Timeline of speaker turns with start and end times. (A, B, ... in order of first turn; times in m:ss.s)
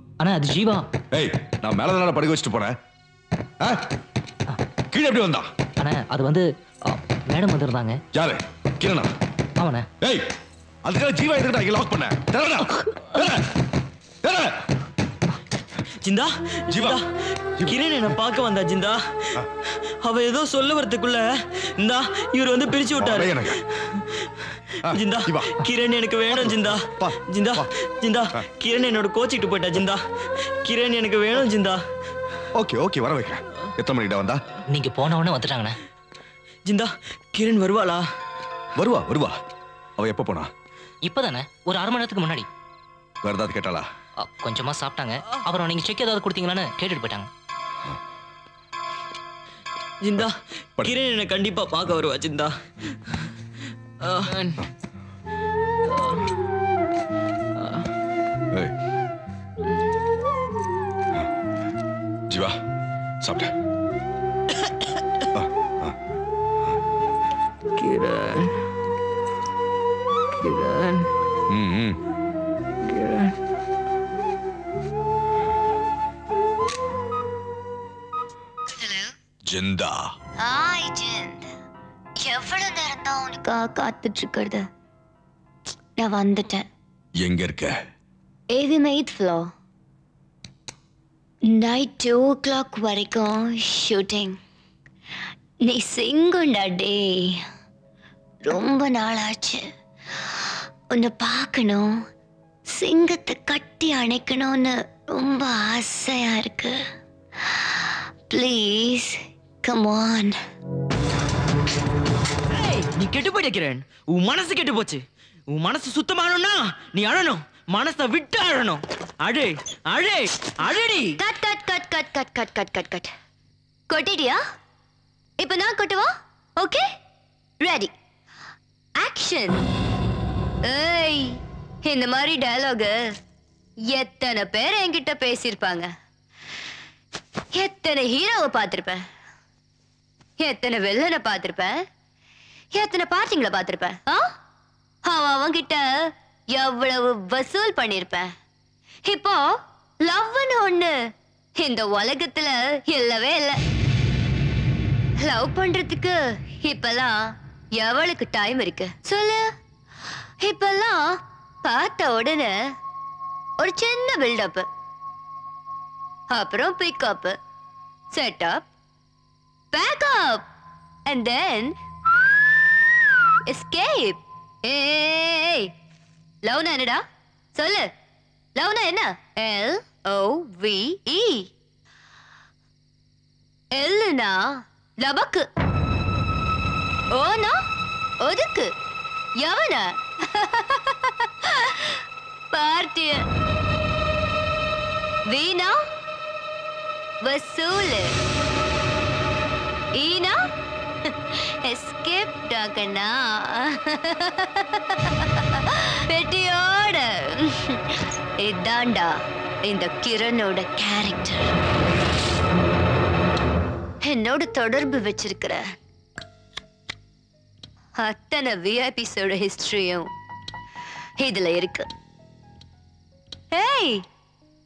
0:00.2-0:00.9 A
0:01.1-0:02.8 B
0:04.9-0:05.5 B
0:05.8-0:08.0 A
0:08.1-0:09.1 B
0:09.6-0:09.9 A
0:10.0-0:10.2 B
0:10.8-0:13.5 B
0:14.2-0:14.6 B
0:16.0-0:17.0 C
0:16.7-0:17.0 B
0:17.6-0:19.3 C
0:20.0-0:24.0 C
0:23.0-0:23.6 B
0:24.8-0:25.6 B
0:24.9-0:30.0 C
0:26.3-0:27.7 B
0:30.6-0:31.8 C
0:32.6-0:34.4 B
0:34.7-0:35.8 A
0:36.7-0:38.0 C
0:38.8-0:39.3 B
0:40.0-0:40.5 B
0:41.0-0:42.5 A
0:43.2-0:43.9 B
0:44.2-0:47.3 A
0:50.0-0:52.5 C
0:54.0-0:54.6 C
1:02.3-1:02.6 B
1:03.2-1:03.5 B
1:05.3-1:05.9 B
1:07.8-1:08.5 C
1:10.4-1:11.1 C
1:11.5-1:12.0 B
1:12.8-1:13.3 C
1:18.7-1:19.1 D
1:19.5-1:20.1 B
1:20.4-1:21.5 D
1:22.2-1:24.7 D
1:26.0-1:26.7 D
1:27.2-1:27.8 B
1:28.5-1:29.5 D
1:31.5-1:34.3 D
1:35.6-1:37.4 D
1:38.4-1:39.7 D
1:40.9-1:42.0 D
1:42.7-1:46.8 D
1:47.6-1:50.4 D
1:52.5-2:01.1 C
2:01.2-2:03.1 D
2:03.9-2:04.4 D
2:05.4-2:06.8 D
2:07.6-2:07.9 D
2:09.0-2:09.6 D
2:10.7-2:13.0 D
2:13.9-2:15.9 D
2:17.6-2:19.0 D
2:20.4-2:21.8 D
2:22.8-2:24.2 D
2:25.1-2:25.9 D
2:26.6-2:28.3 D
2:29.1-2:29.5 D
2:30.0-2:30.9 D
2:31.6-2:33.6 D
2:35.2-2:39.5 D
2:40.4-2:42.6 D
2:43.6-2:44.7 D
2:46.3-2:47.4 D
2:48.1-2:48.6 D
2:49.7-2:50.5 D
2:51.1-2:51.8 D
2:53.5-2:55.7 D
2:56.4-2:57.0 D
2:57.6-2:57.9 D
2:58.6-3:01.5 D
3:03.7-3:05.5 D
3:07.1-3:07.6 D
3:08.2-3:08.7 D
3:09.4-3:12.0 D
3:12.5-3:13.2 D
3:15.3-3:15.8 D
3:17.2-3:18.2 D
3:20.0-3:20.4 D
3:21.3-3:27.8 D
3:28.4-3:29.1 D
3:29.7-3:31.5 D
3:34.0-3:35.7 D
3:38.0-3:40.1 D
3:41.2-3:41.9 D
3:43.5-3:44.0 D